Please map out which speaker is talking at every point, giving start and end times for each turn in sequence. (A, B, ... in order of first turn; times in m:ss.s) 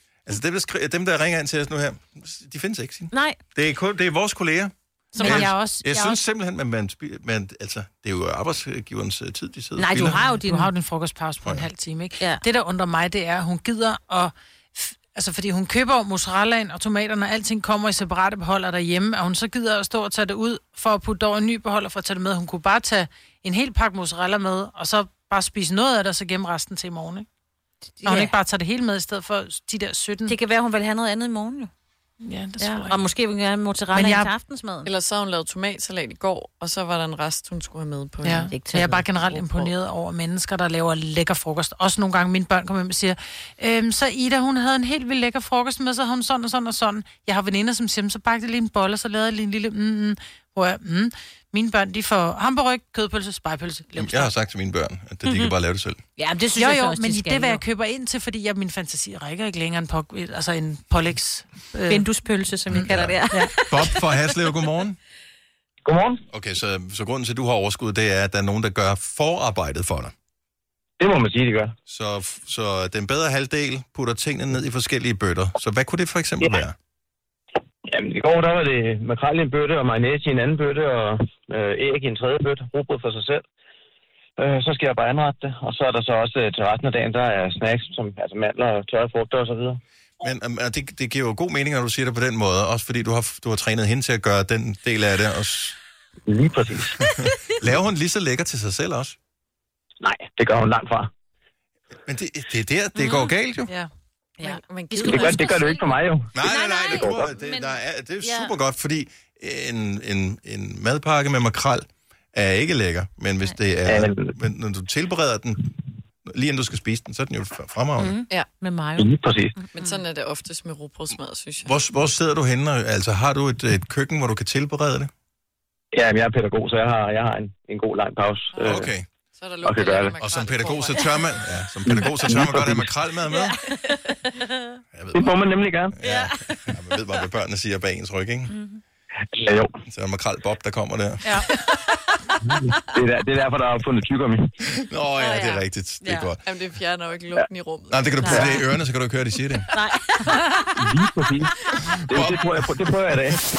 0:00.3-0:10.2 A
0:03.1-0:03.4 B
0:05.1-0:06.1 B
0:05.2-0:06.0 C
0:09.8-0:10.7 B
0:10.4-0:27.3 C
0:28.0-0:28.3 B
0:28.0-0:30.4 C
0:30.3-0:31.7 B
0:32.2-0:33.0 C
0:32.6-0:34.9 B
0:33.9-0:34.3 C
0:34.8-0:38.5 D
0:38.2-0:54.3 C
0:38.5-0:39.1 B
0:54.0-0:56.0 A
0:55.3-0:55.5 B
0:56.2-0:57.6 B
0:56.6-1:02.0 C
1:01.9-1:04.0 B
1:02.7-1:03.2 A
1:02.8-1:03.5 C
1:03.7-1:05.0 A
1:05.8-1:06.2 E
1:06.3-1:10.1 A
1:11.0-1:11.8 E
1:11.9-1:16.8 A
1:17.9-1:23.4 E
1:24.4-1:29.8 E
1:30.2-1:35.8 A
1:36.3-1:37.0 E
1:37.2-1:39.2 A
1:40.0-1:41.1 E
1:42.1-1:43.7 A
1:43.0-1:43.3 B
1:44.4-1:45.8 B
1:44.4-1:45.8 D
1:45.1-1:46.3 E
1:46.3-1:55.7 A
1:46.4-1:48.5 B
1:53.9-1:54.4 E
1:56.2-1:58.2 A
1:58.0-2:00.0 B
1:59.0-1:59.6 E
1:59.8-2:01.7 D
2:01.6-2:05.1 A
2:05.9-2:08.9 E
2:08.5-2:08.8 D
2:08.6-2:09.1 A
2:09.4-2:11.1 D
2:09.6-2:10.2 E
2:10.2-2:13.6 A
2:11.9-2:12.9 E
2:13.3-2:14.8 B
2:14.9-2:15.3 A
2:15.1-2:16.0 E
2:16.0-2:18.5 A
2:16.0-2:16.7 B
2:18.5-2:18.8 B
2:19.3-2:19.8 E
2:19.9-2:21.4 A
2:22.4-2:24.5 E
2:24.8-2:26.4 A
2:25.2-2:26.3 B
2:26.4-2:28.6 D
2:27.9-2:29.7 A
2:28.2-2:28.6 B
2:29.7-2:30.6 B
2:30.8-2:31.5 E
2:32.1-2:33.4 E
2:32.1-2:32.7 A